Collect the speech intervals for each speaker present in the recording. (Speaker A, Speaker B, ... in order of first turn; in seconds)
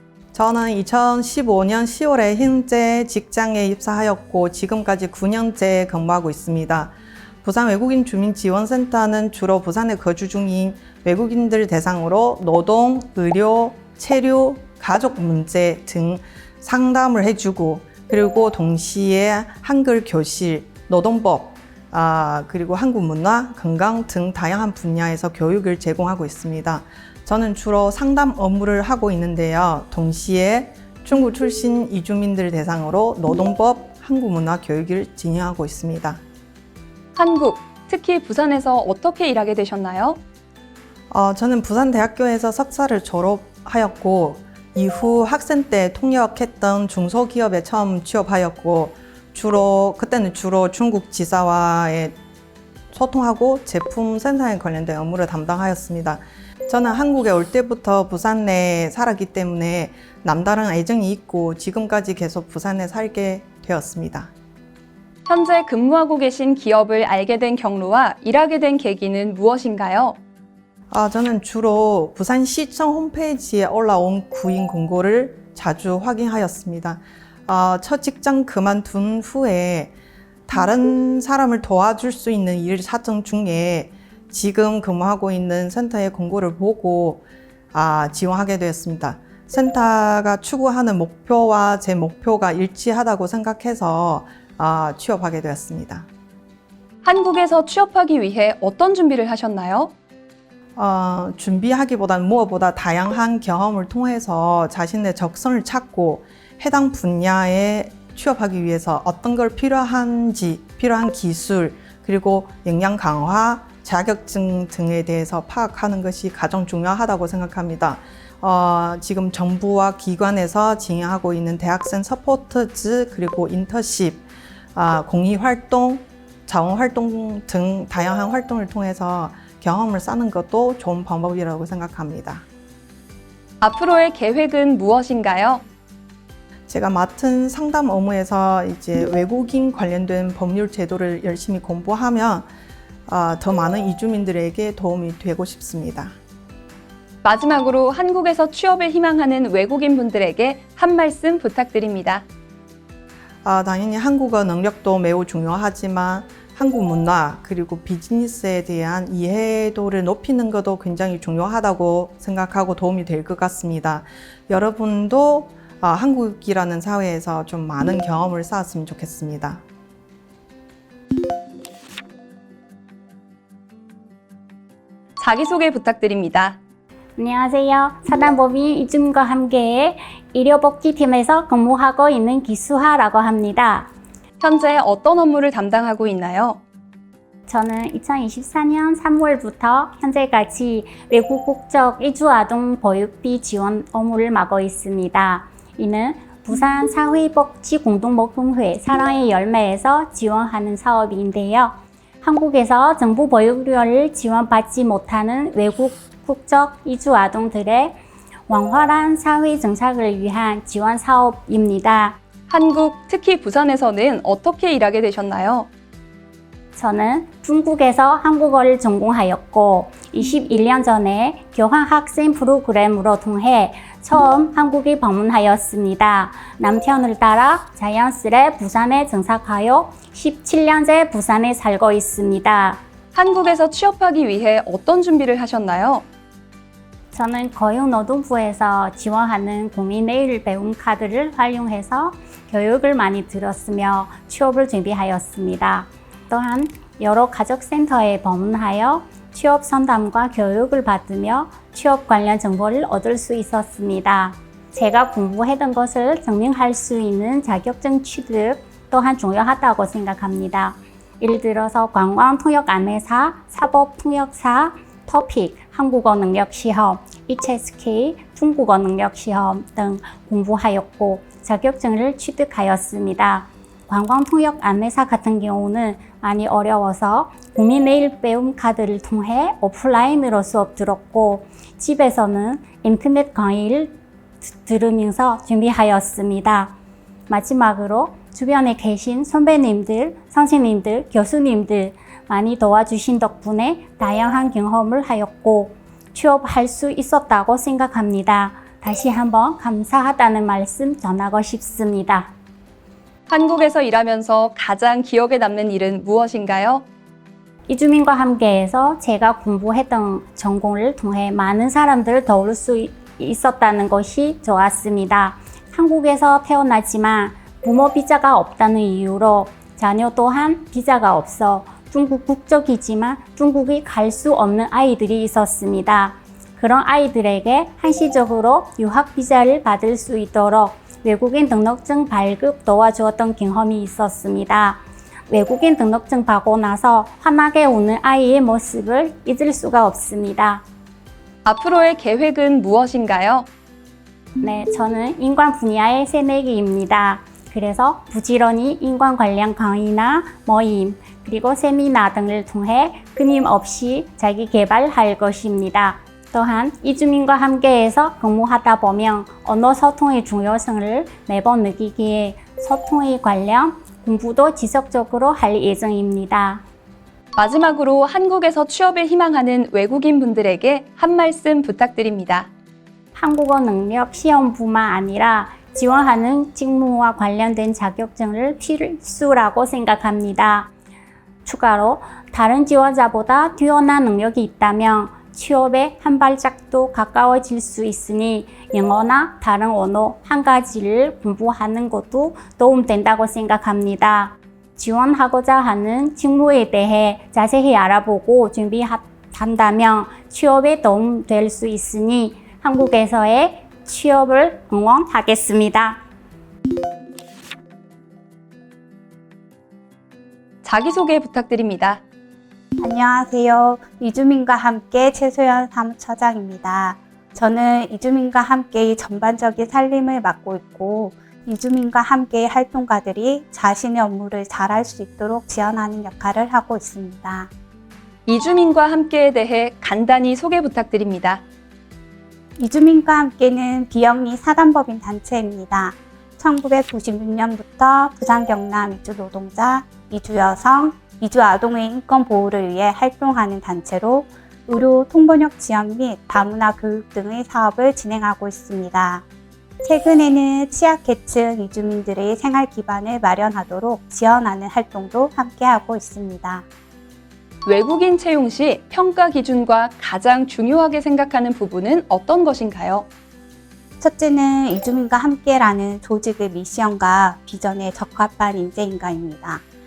Speaker A: 0.3-36.2, 41.1-52.1, 52.9-64.3, 70.9-79.9, 80.5-96.1, 100.8-132.4, 136.7-142.5, 143.1-146.1, 153.4-169.6
Speaker B: 37.1-40.2, 65.3-70.2, 97.0-99.9, 133.6-135.6, 147.2-152.2, 175.2-176.6, 184.4-186.6, 212.5-215.7, 233.1-236.0, 303.3-306.8, 341.4-343.5, 367.4-372.5, 410.6-412.0, 428.3-431.4, 457.6-463.1
Speaker C: 177.2-183.9, 187.5-208.0, 208.5-212.2, 216.7-232.8, 237.1-286.7, 287.3-302.3, 307.7-340.6, 344.4-366.6, 373.1-380.7, 381.4-406.0
Speaker D: 412.8-427.5, 432.6-449.2, 449.8-456.6, 464.0-469.6